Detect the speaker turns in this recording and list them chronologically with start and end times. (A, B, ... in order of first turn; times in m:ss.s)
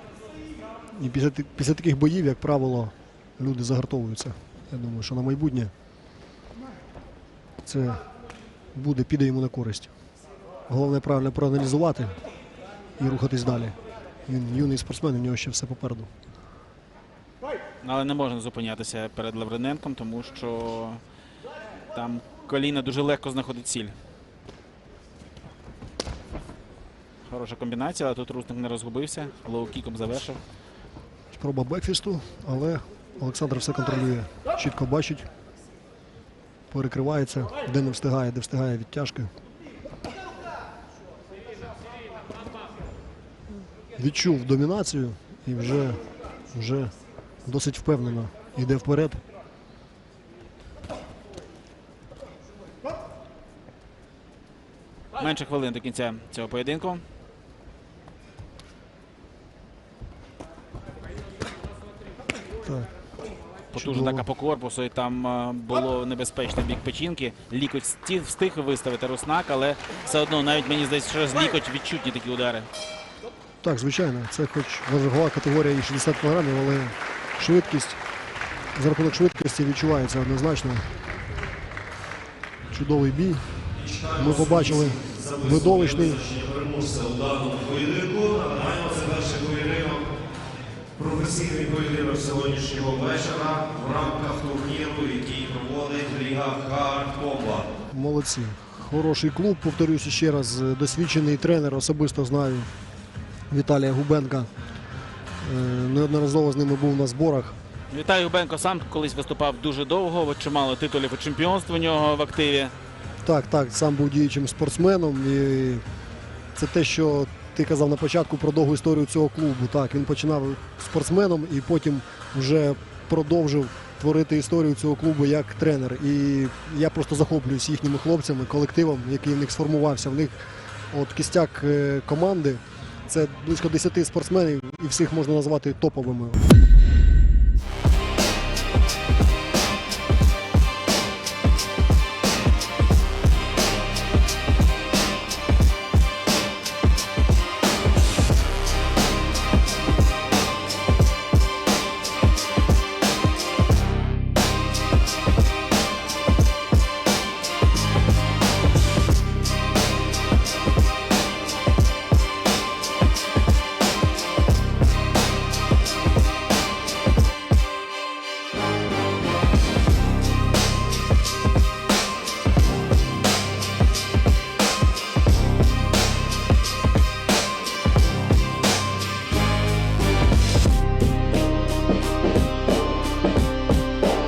0:01.0-0:05.7 A
0:07.6-0:08.0 A
0:08.7-0:09.9 A
0:10.7-0:12.2 A
0:13.0-0:16.1 A
0:17.8-0:21.0 B
0:21.9-0:24.0 B
0:27.3-0:30.4 B
0:31.3-0:35.3 A
0:36.7-0:39.3 A
0:44.0-0:46.0 A
0:46.5-0:46.9 A
0:47.4-0:49.2 A
0:55.2-0:57.0 B
1:02.6-1:02.9 A
1:03.7-1:12.7 B
1:03.7-1:04.3 A
1:13.6-1:18.0 A
1:18.8-1:20.8 A
1:22.7-1:23.4 A
1:23.8-1:30.1 C
1:24.2-1:26.2 A
1:31.0-1:37.7 C
1:37.9-1:42.7 A
1:43.5-1:44.5 A
1:45.4-1:47.6 A
1:47.9-1:52.7 B
1:53.2-1:55.8 A
1:56.6-2:16.4 A